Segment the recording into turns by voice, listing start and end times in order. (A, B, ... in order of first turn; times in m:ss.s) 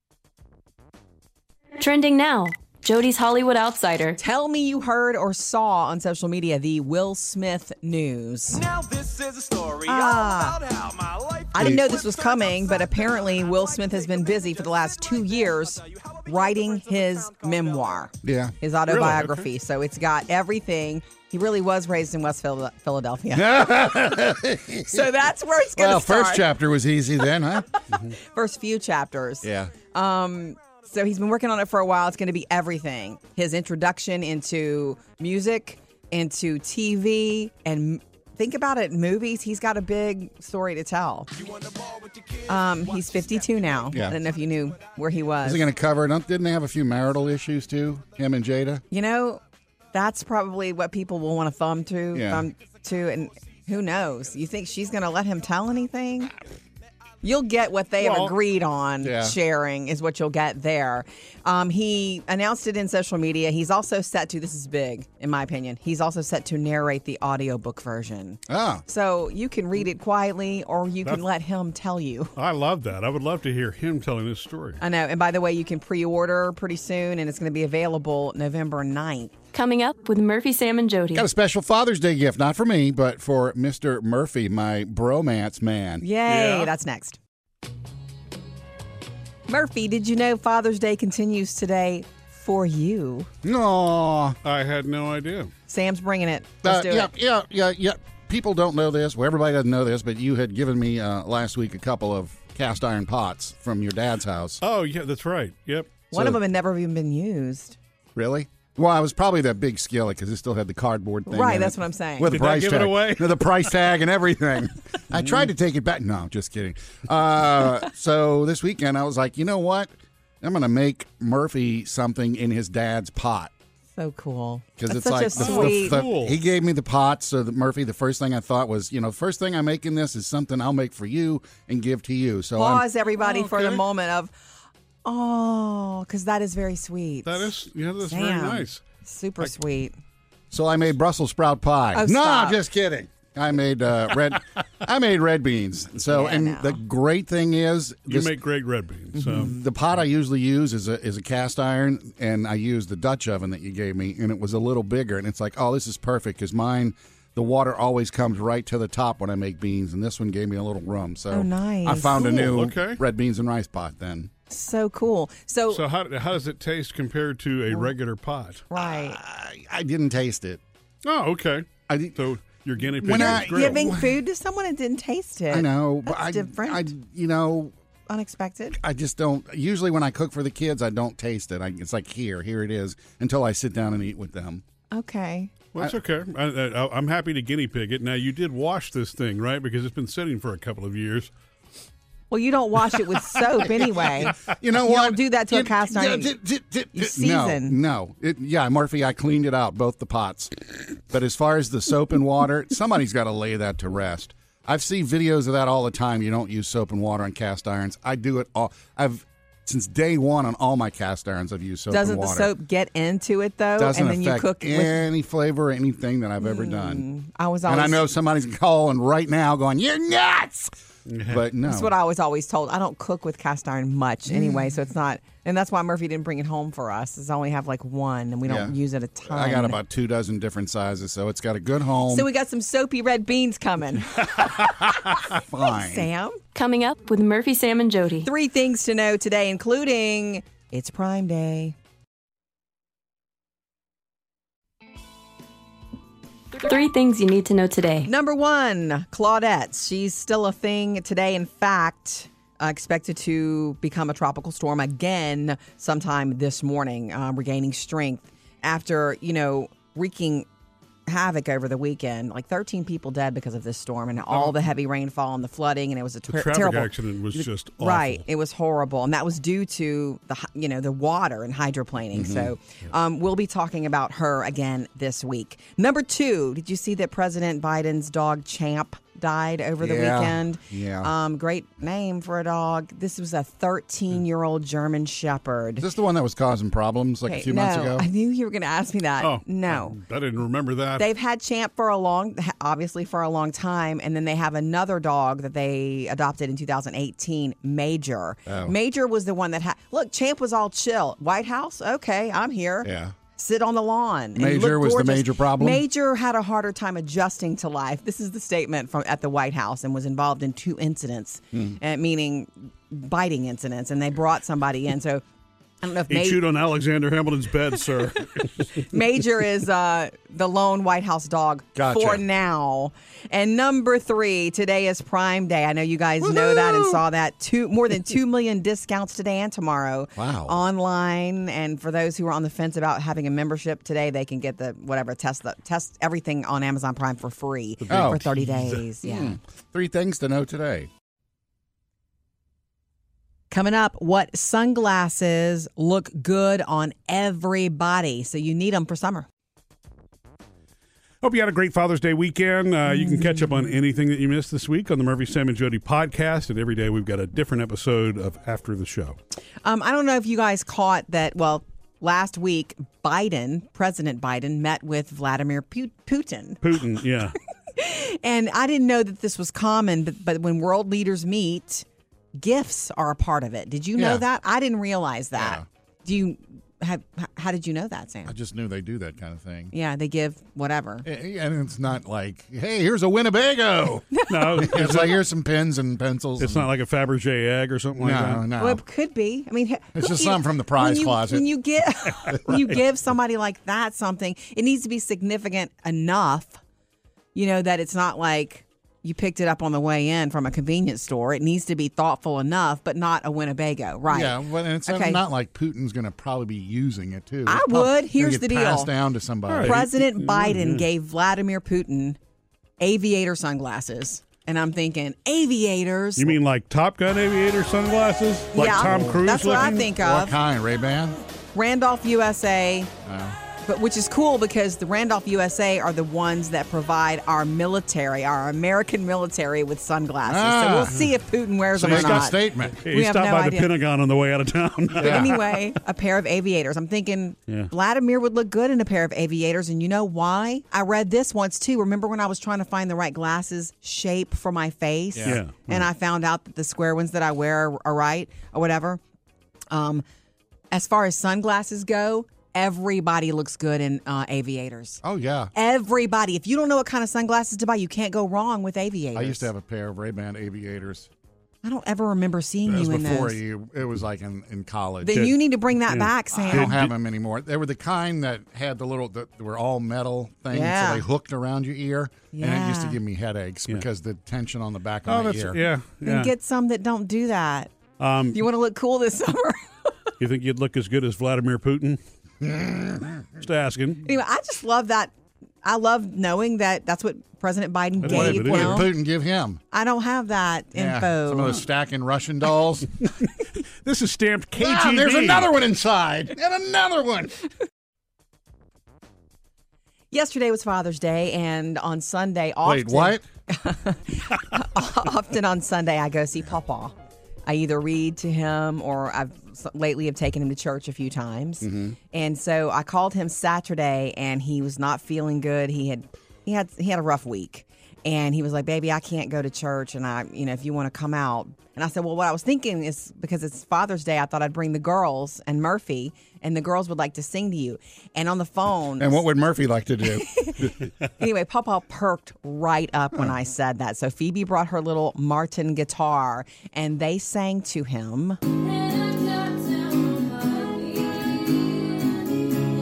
0:01.8-0:04.2 A
0:04.2-0:08.7 B
0:08.6-0:11.4 C
0:09.8-0:10.6 B
0:11.5-0:23.8 B
0:11.6-0:11.9 D
0:18.2-0:18.6 D
0:18.9-0:19.4 E
0:23.3-0:25.1 D
0:24.8-0:26.5 B
0:25.7-0:27.8 D
0:27.9-0:41.3 B
0:29.4-0:29.7 D
0:42.4-0:45.7 B
0:43.9-0:44.2 D
0:45.4-0:48.8 D
0:48.9-0:49.4 B
0:49.9-0:56.3 B
0:52.1-0:52.5 D
0:57.2-1:12.3 B
0:58.0-0:58.3 E
0:59.0-0:59.4 D
1:08.5-1:08.8 D
1:12.4-1:14.8 E
1:14.8-1:19.3 B
1:19.5-1:21.3 A
1:21.1-1:26.0 D
1:26.0-1:27.2 B
1:26.2-1:26.7 E
1:29.5-1:33.3 B
1:33.4-1:34.4 D
1:34.4-1:35.5 E
1:35.7-1:37.1 B
1:36.6-1:44.6 D
1:44.6-1:46.0 E
1:46.1-1:47.8 B
1:48.2-2:03.5 D
1:51.3-1:52.4 B
1:52.3-1:53.6 E
2:04.0-2:06.0 B
2:04.8-2:12.8 D
2:05.4-2:06.4 E
2:12.6-2:14.3 B
2:13.2-2:13.8 E
2:15.0-2:19.9 B
2:17.2-2:18.8 E
2:20.5-2:28.4 D
2:21.9-2:22.6 B
2:26.1-2:26.8 B
2:28.1-2:29.5 E
2:29.2-2:29.4 B
2:29.2-2:44.3 D
2:41.3-2:42.5 B
2:42.3-2:43.0 E
2:44.5-2:45.8 B
2:45.7-2:48.6 E
2:48.7-2:49.2 B
2:48.7-2:50.6 D
2:51.0-2:53.8 E
2:51.9-2:52.2 D
2:53.0-2:54.2 D
2:53.1-2:56.9 B
2:55.5-2:57.7 D
2:58.1-2:58.8 B
2:58.8-3:04.6 D
3:04.9-3:05.5 B
3:05.7-3:11.3 E
3:12.3-3:16.3 B
3:13.6-3:32.5 D
3:16.9-3:17.8 B
3:31.9-3:35.0 B
3:33.8-3:37.0 D
3:36.4-3:38.0 B
3:37.6-3:40.7 D
3:41.1-3:41.4 E
3:41.3-3:41.9 D
3:41.6-3:49.8 B
3:48.4-3:48.7 D
3:49.2-3:52.3 D
3:52.1-3:56.4 B
3:55.3-3:56.1 D
3:56.5-3:58.3 A
3:58.2-4:01.8 B
4:06.5-4:08.1 A
4:08.0-4:20.5 B
4:21.1-4:45.8 B
4:26.3-4:28.2 E
4:32.1-4:32.5 D
4:39.8-4:41.1 D
4:45.8-4:48.1 D
4:47.3-4:50.0 B
4:49.2-4:51.1 E
4:51.0-5:15.2 B
4:58.5-4:58.7 D
5:02.8-5:03.1 D
5:04.4-5:05.8 D
5:15.8-5:16.4 B
5:16.1-5:18.6 E
5:18.8-5:39.4 B
5:21.7-5:22.2 D
5:26.2-5:27.0 D
5:30.2-5:30.6 D
5:37.8-5:38.8 E
5:37.9-5:38.3 D
5:39.0-5:40.9 D
5:43.5-5:49.2 B
5:51.2-5:59.2 E
5:53.1-5:53.6 B
5:59.6-6:06.6 B
6:06.6-6:07.4 E
6:07.7-6:18.3 B
6:14.0-6:14.2 D
6:15.3-6:15.6 D
6:18.2-6:19.7 D
6:19.7-6:21.0 B
6:21.0-6:26.7 D
6:24.1-6:24.8 B
6:24.3-6:25.2 E
6:26.4-6:28.5 E
6:28.0-6:28.8 D
6:28.6-6:36.6 B
6:29.9-6:31.4 D
6:32.3-6:32.7 D
6:37.3-6:45.2 B
6:44.1-6:49.8 D
6:47.4-6:48.9 B
6:49.5-6:50.8 E
6:49.6-6:52.2 B
6:52.8-6:56.4 B
6:56.2-6:59.9 E
6:58.5-7:00.3 B
6:58.5-7:01.2 D
7:01.5-7:02.9 B
7:03.0-7:03.4 D
7:03.6-7:13.7 B
7:10.2-7:11.0 D
7:11.7-7:12.8 D
7:11.8-7:15.6 E
7:15.0-7:15.4 D
7:15.0-7:29.0 B
7:25.1-7:25.4 D
7:25.2-7:25.9 E
7:29.7-7:30.0 B
7:30.7-7:35.0 B
7:35.0-7:35.5 D
7:35.5-7:39.5 B
7:39.1-7:41.1 D
7:41.6-7:43.4 B
7:42.6-7:45.3 D
7:45.0-7:46.8 B
7:45.1-7:46.9 E
7:46.3-7:55.6 D
7:50.5-7:51.0 B
7:52.3-7:53.0 B
7:55.1-7:56.3 E
7:56.0-7:57.7 B
7:58.0-7:58.4 E
7:58.3-8:00.1 B
8:00.2-8:02.0 E
8:02.4-8:03.2 D
8:03.4-8:04.0 E
8:04.0-8:05.1 B
8:05.6-8:08.9 B
8:08.0-8:08.8 E
8:08.0-8:09.6 D
8:09.7-8:11.6 B
8:10.7-8:13.0 D
8:13.8-8:15.5 E
8:14.5-8:17.4 D
8:20.1-8:26.9 B
8:22.6-8:23.2 D
8:27.4-8:49.2 B
8:31.6-8:32.0 D
8:49.0-8:50.7 D
8:50.1-8:58.4 B
8:58.7-9:00.9 A